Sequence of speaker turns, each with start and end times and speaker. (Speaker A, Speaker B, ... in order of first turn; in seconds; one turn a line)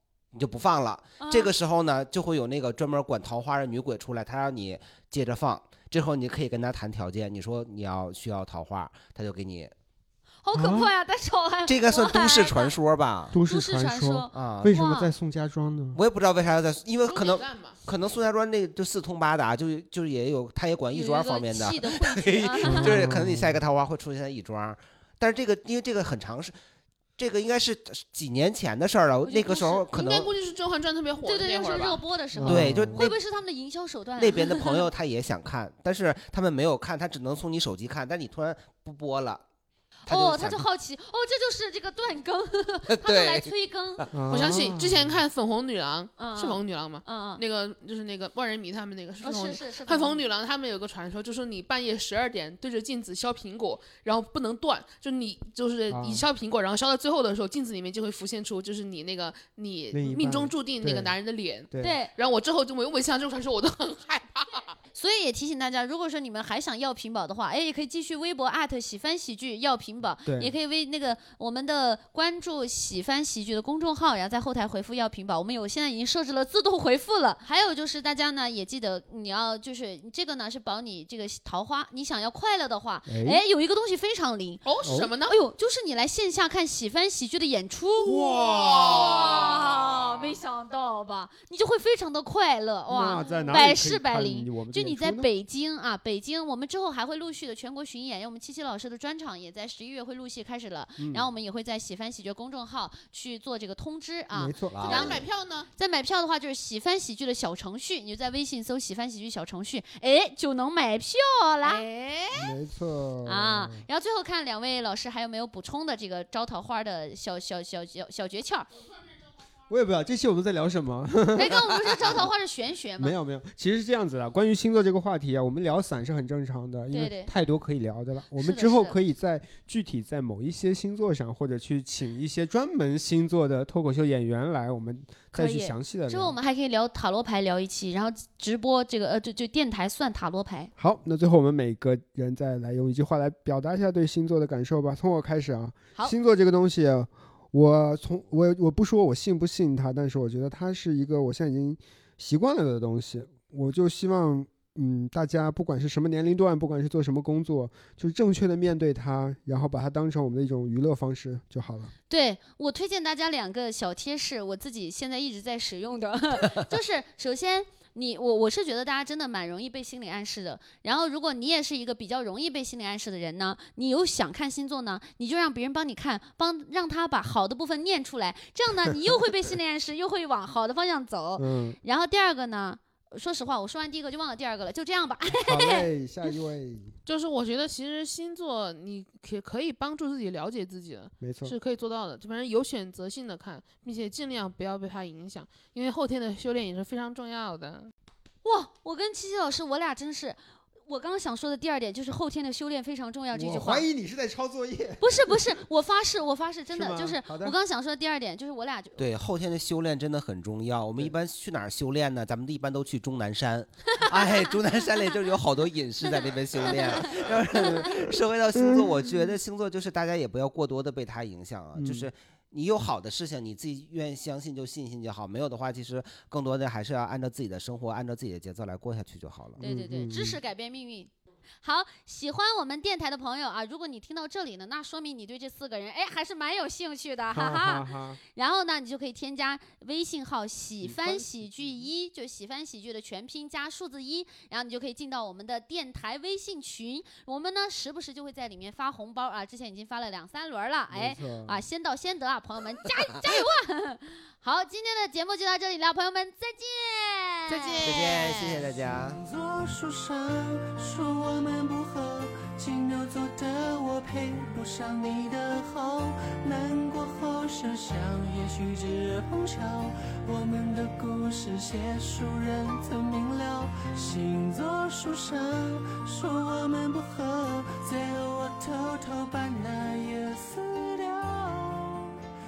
Speaker A: 0.3-9.7
Speaker B: 1.2-1.5
Speaker B: 10.4-12.8
Speaker C: 10.5-10.9
Speaker A: 11.7-13.4
Speaker C: 13.3-16.0
Speaker B: 13.4-15.1
Speaker A: 14.3-14.8
Speaker A: 15.9-26.6
Speaker D: 17.1-17.8
Speaker B: 20.9-23.0
Speaker C: 22.7-23.6
Speaker A: 27.2-30.3
Speaker B: 29.2-29.9
Speaker D: 29.9-32.0
Speaker B: 31.2-34.9
Speaker C: 32.4-33.1
Speaker A: 32.4-33.2
Speaker A: 34.2-39.4
Speaker A: 40.1-40.6
Speaker B: 40.1-44.0
Speaker A: 42.9-44.1
Speaker C: 44.1-45.2
Speaker D: 44.3-64.8
Speaker B: 46.2-47.4
Speaker B: 49.2-50.2
Speaker C: 55.9-56.3
Speaker C: 59.9-61.1
Speaker C: 61.7-62.0
Speaker B: 61.8-62.1
Speaker B: 65.0-84.6
Speaker C: 70.3-70.5
Speaker C: 83.1-83.4
Speaker D: 84.7-85.4
Speaker C: 84.8-85.1
Speaker B: 85.2-112.5
Speaker C: 88.0-89.6
Speaker D: 88.5-89.5
Speaker C: 92.9-95.3
Speaker C: 101.0-101.3
Speaker C: 104.3-105.1
Speaker A: 104.7-105.2
Speaker D: 104.8-105.7
Speaker C: 112.4-113.8
Speaker B: 113.2-118.7
Speaker C: 119.7-122.3
Speaker B: 121.3-123.2
Speaker C: 123.0-136.4
Speaker B: 126.9-127.3
Speaker B: 128.4-129.0
Speaker B: 135.3-140.7
Speaker C: 140.8-161.9
Speaker B: 162.1-185.9
Speaker C: 181.4-181.8
Speaker C: 185.4-186.9
Speaker D: 187.1-197.9
Speaker C: 191.2-191.6
Speaker B: 198.4-203.8
Speaker C: 203.3-205.2
Speaker B: 205.0-209.0
Speaker C: 206.7-207.6
Speaker A: 209.0-229.6
Speaker B: 213.9-214.5
Speaker B: 216.7-217.9
Speaker C: 218.6-219.0
Speaker C: 221.8-222.1
Speaker B: 229.6-231.1
Speaker C: 229.6-230.4
Speaker B: 231.6-258.2
Speaker C: 237.3-238.2
Speaker C: 240.8-241.3
Speaker C: 250.9-251.6
Speaker A: 257.5-259.2
Speaker E: 257.9-282.2